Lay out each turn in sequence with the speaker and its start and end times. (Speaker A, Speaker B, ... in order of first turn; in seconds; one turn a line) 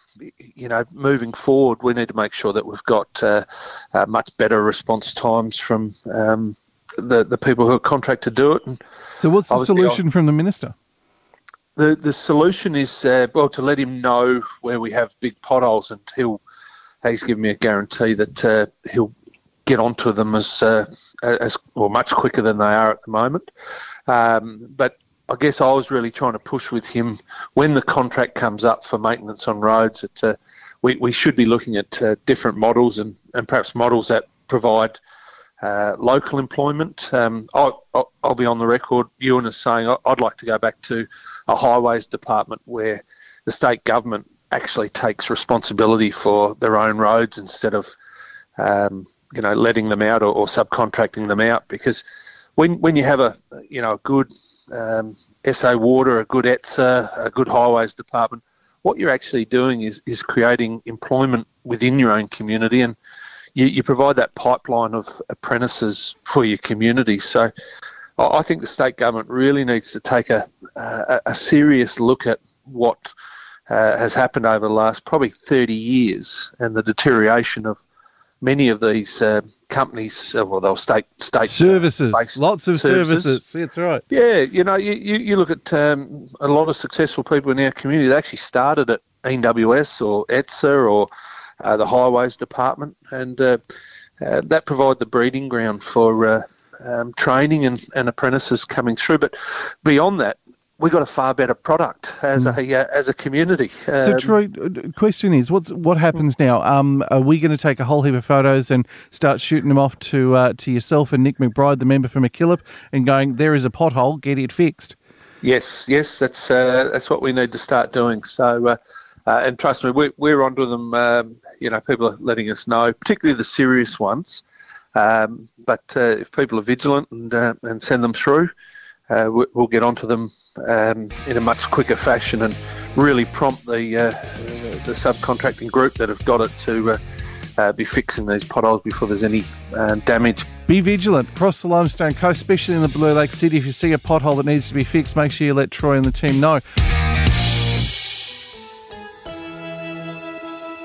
Speaker A: 0.3-8.8
Speaker B: 9.2-10.7
Speaker A: 9.5-10.0
Speaker A: 11.8-16.4
Speaker A: 17.0-19.1
Speaker A: 19.7-23.5
Speaker A: 24.1-35.0
Speaker A: 35.6-47.9
Speaker A: 48.6-63.0
Speaker A: 63.6-67.5
Speaker A: 68.2-73.1
Speaker A: 73.7-77.8
Speaker A: 78.4-83.4
Speaker B: 81.5-84.0
Speaker A: 84.1-91.1
Speaker A: 91.6-93.6
Speaker A: 94.2-104.3
Speaker B: 104.0-115.0
Speaker A: 115.4-124.4
Speaker A: 125.0-128.5
Speaker A: 129.1-137.0
Speaker A: 137.6-140.5
Speaker B: 140.7-146.6